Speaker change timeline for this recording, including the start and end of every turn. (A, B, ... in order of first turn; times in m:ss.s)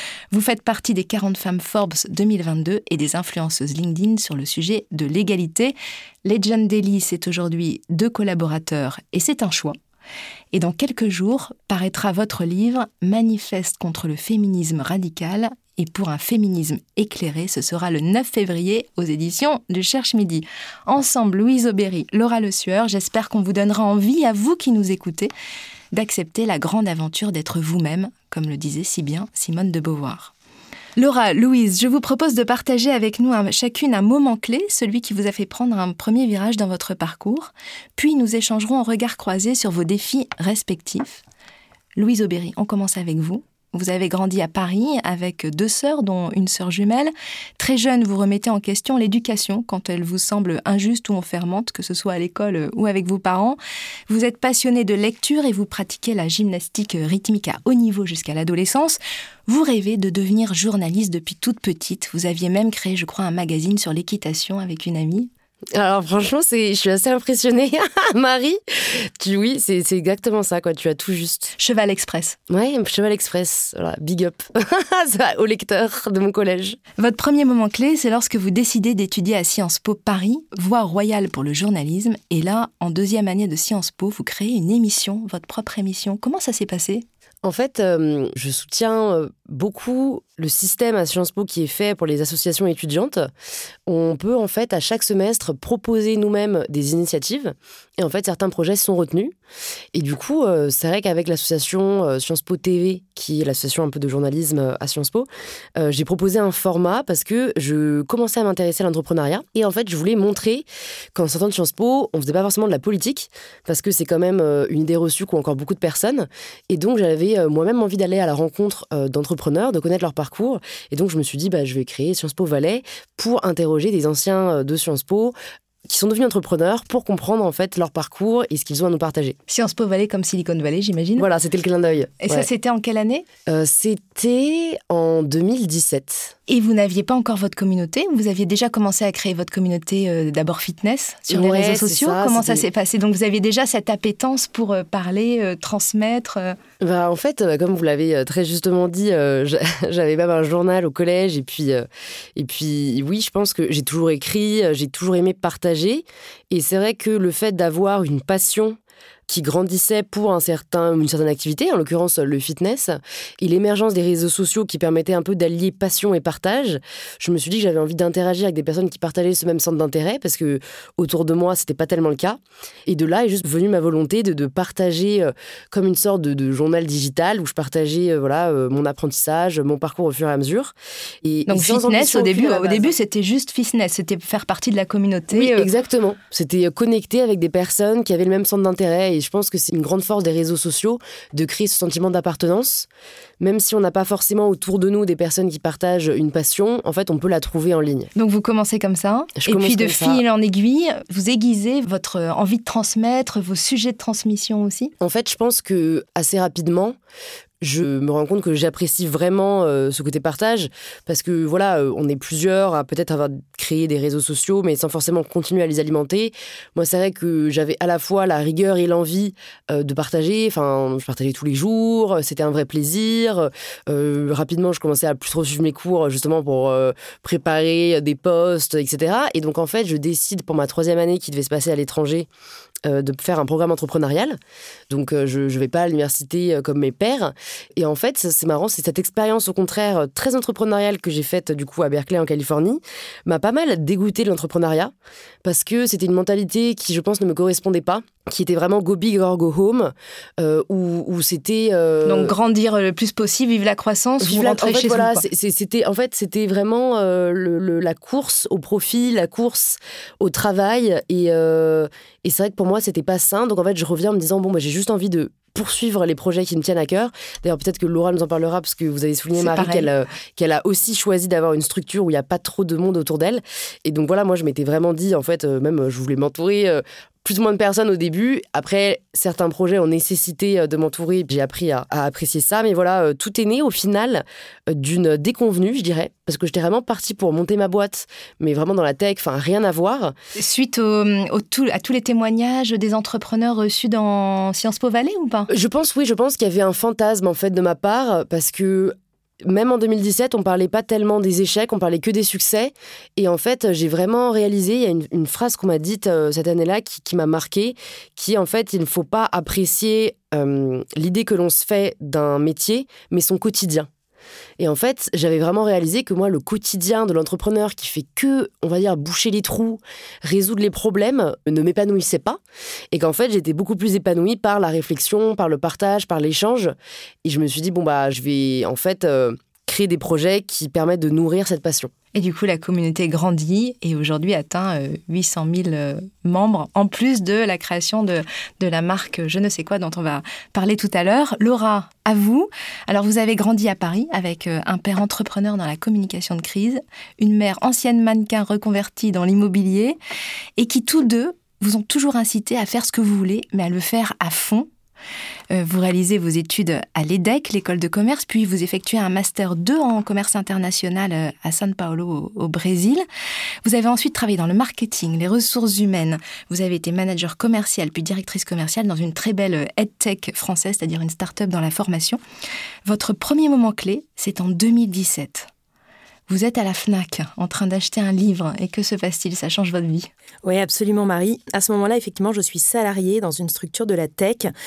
0:00.3-0:05.7 A
0:06.2-0:09.8 A
0:10.5-0:25.3 A
0:25.9-0:30.3 A
0:31.0-0:41.2 A
0:42.0-0:53.6 A
0:54.1-1:05.3 A
1:05.7-1:11.5 B
1:11.6-1:12.4 A
1:12.5-1:16.8 B
1:17.0-1:27.0 A
1:27.4-1:33.3 B
1:33.9-1:39.4 B
1:39.9-2:05.3 B
2:05.9-2:09.4 B
2:09.5-2:11.3 A
2:11.2-2:12.5 B
2:12.2-2:13.3 A
2:13.5-2:16.4 B
2:16.5-2:26.6 A
2:21.3-2:22.7 B
2:26.8-2:38.8 B
2:39.3-3:02.9 B
3:01.5-3:05.7 A
3:05.3-3:12.9 B
3:13.4-3:18.1 B
3:18.2-3:24.9 A
3:19.4-3:20.2 B
3:25.0-3:27.0 B
3:27.6-3:52.3 B
3:52.8-3:54.4 B
3:54.9-4:04.9 B
4:05.4-4:12.4 B
4:12.0-4:15.2 A
4:14.2-4:50.1 B
4:29.4-4:29.9 A
4:50.4-4:55.5 A
4:55.5-5:13.9 B
5:14.6-5:22.4 B
5:22.9-5:31.9 B
5:32.1-5:50.0 A
5:50.6-5:54.7 A
5:55.5-6:03.0 A
6:03.6-6:12.2 A
6:12.9-6:15.5 A
6:16.3-6:20.1 A
6:20.4-6:24.5 C